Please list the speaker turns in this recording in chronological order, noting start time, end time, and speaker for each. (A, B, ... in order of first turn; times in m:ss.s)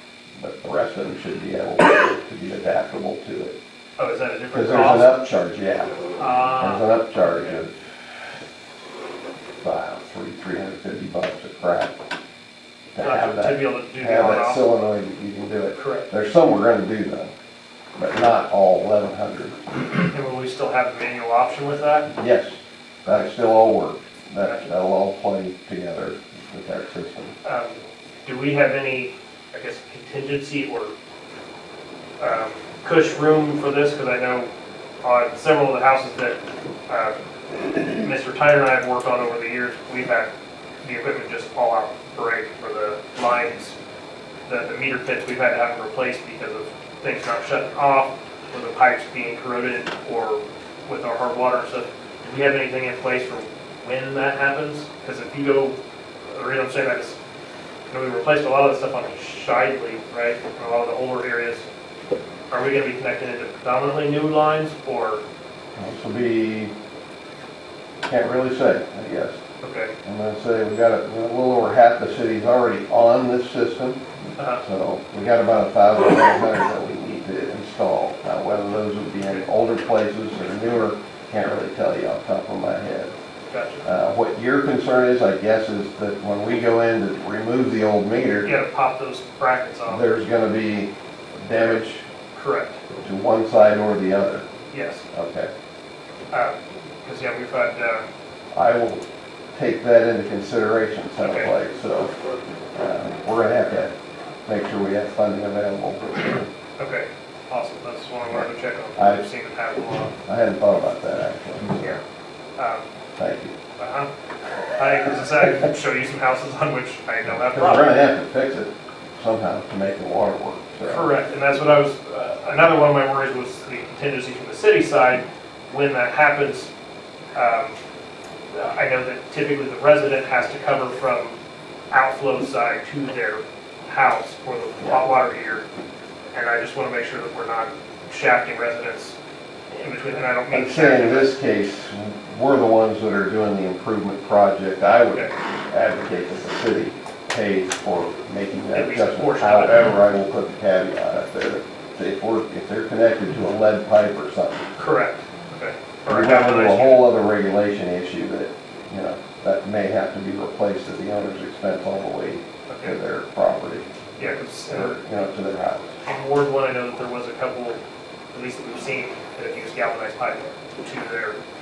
0:00.4-0:03.6 A
0:04.0-0:05.2 B
0:04.5-0:07.9 A
0:06.2-0:07.6 B
0:09.6-0:12.0 A
0:12.9-0:17.3 A
0:13.0-0:14.7 B
0:15.8-0:16.1 B
0:18.0-0:19.8 A
0:20.1-0:22.1 B
0:22.2-0:27.4 A
0:27.4-0:30.9 B
0:32.2-0:34.5 B
0:35.0-0:37.2 B
0:37.8-0:40.3 B
0:40.8-0:43.8 B
0:44.5-0:55.8 B
0:56.3-0:57.2 B
0:57.9-1:01.6 B
1:02.5-1:05.2 B
1:05.8-1:06.7 A
1:08.0-1:09.4 A
1:09.6-1:09.9 B
1:10.0-1:14.0 A
1:14.4-1:14.6 B
1:14.6-1:23.1 A
1:23.5-1:23.8 B
1:23.8-1:28.5 A
1:28.4-1:30.0 B
1:29.9-1:32.0 A
1:32.3-1:32.8 B
1:33.0-1:34.4 A
1:34.7-1:35.0 B
1:35.1-1:35.5 A
1:36.3-1:38.1 B
1:38.5-1:39.0 A
1:39.6-1:42.2 A
1:41.2-1:41.5 B
1:42.7-1:43.9 A
1:44.4-1:46.3 A
1:46.8-1:50.1 B
1:48.3-1:49.2 A
1:50.2-1:52.0 A
1:52.6-1:52.8 B
1:53.2-1:53.5 A
1:53.8-1:54.1 B
1:54.8-1:57.9 B
1:57.3-2:01.1 A
2:00.8-2:06.7 B
2:07.4-2:07.8 B
2:08.5-2:11.4 B
2:11.9-2:15.6 B
2:16.3-2:19.1 B
2:19.7-2:21.4 B
2:20.5-2:34.7 A
2:28.7-2:30.0 B
2:34.8-2:37.1 B
2:36.1-2:43.9 A
2:42.7-2:43.0 B
2:44.2-2:45.0 B
2:44.7-2:45.9 A
2:46.0-2:47.8 B
2:48.3-2:51.4 B